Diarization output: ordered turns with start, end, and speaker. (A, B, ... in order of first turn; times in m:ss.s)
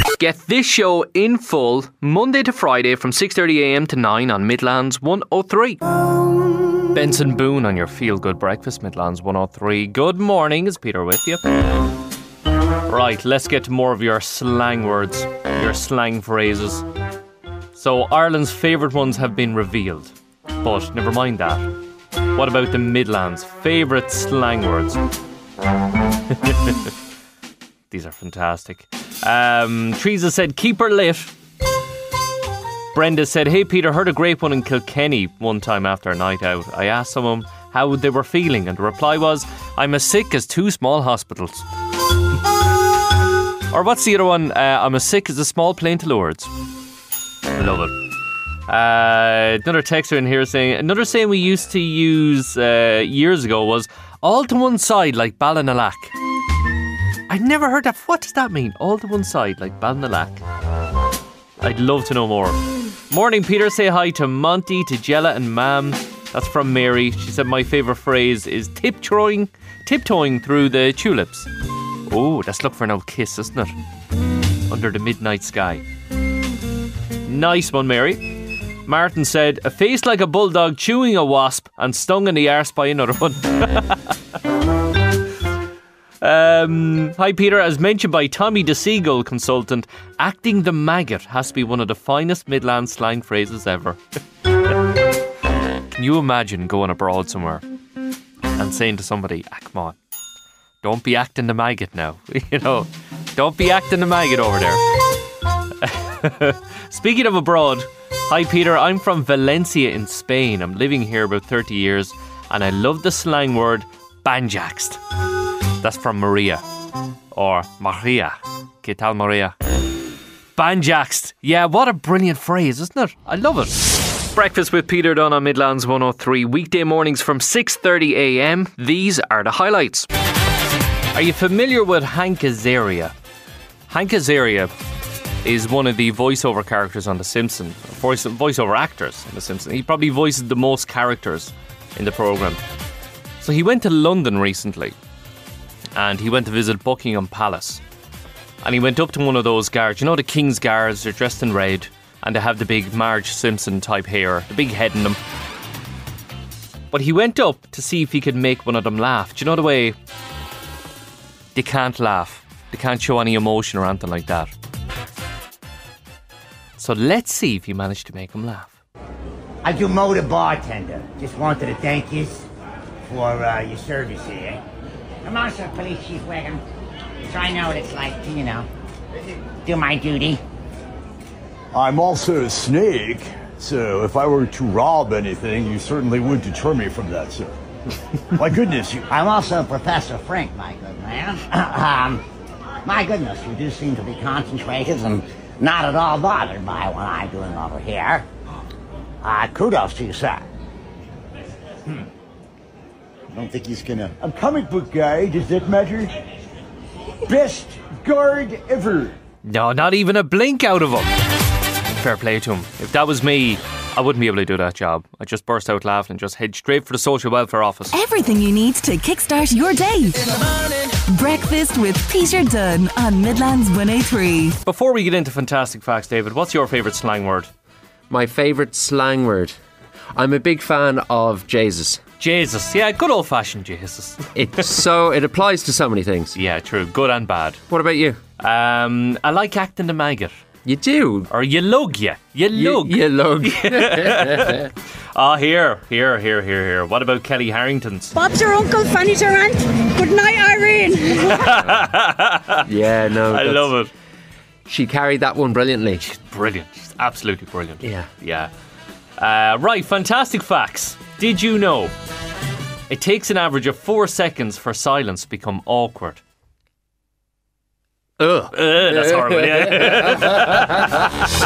0:00.2-0:05.8 A
0:06.9-0:11.4 A
0:12.9-0:16.8 A
0:17.8-0:21.7 A
0:22.3-0:25.0 A
0:26.3-0:26.9 A
0:27.9-0:31.3 A
0:32.9-0:41.6 A
0:43.7-0:46.5 A
0:47.6-0:48.0 A
0:48.7-0:56.1 A
0:57.3-1:00.4 A
1:01.6-1:02.6 A
1:03.1-1:11.5 A
1:12.1-1:13.7 A
1:14.7-1:15.8 A
1:17.3-1:18.3 A
1:18.9-1:24.1 A
1:26.2-1:34.0 A
1:35.9-1:37.6 A
1:38.6-1:40.0 A
1:40.8-1:44.8 A
1:45.8-1:55.0 A
1:55.8-1:56.6 A
1:57.3-1:59.6 A
2:00.6-2:10.1 A
2:11.1-2:13.1 A
2:13.9-2:14.7 A
2:15.4-2:22.6 A
2:23.4-2:25.0 A
2:26.0-2:27.8 A
2:28.6-2:35.2 A
2:36.9-2:40.0 A
2:41.6-2:44.5 A
2:46.8-2:48.8 A
2:49.6-2:52.5 B
2:53.1-2:54.6 B
2:55.2-2:56.6 B
2:57.3-2:58.7 B
2:59.6-3:00.4 B
3:01.7-3:07.6 C
3:08.4-3:09.1 C
3:09.1-3:12.2 B
3:12.8-3:18.3 B
3:19.2-3:20.5 B
3:23.3-3:26.1 C
3:27.3-3:29.2 C
3:29.4-3:31.1 A
3:32.0-3:37.9 A
3:37.9-3:44.6 D
3:44.6-3:47.5 A
3:48.1-3:49.6 E
3:50.1-3:52.0 E
3:52.2-3:54.3 A
3:54.4-3:56.4 E
3:56.4-3:57.6 A
3:57.7-3:58.2 E
3:58.4-4:00.4 A
4:00.6-4:01.3 E
4:01.3-4:08.1 A
4:02.5-4:04.7 E
4:08.2-4:11.5 F
4:11.1-4:12.6 A
4:12.7-4:13.7 E
4:13.3-4:13.9 A
4:14.7-4:16.0 E
4:16.0-4:18.5 A
4:17.8-4:18.1 E
4:19.2-4:21.9 A
4:22.9-4:26.2 A
4:28.2-4:31.0 E
4:28.5-4:31.1 A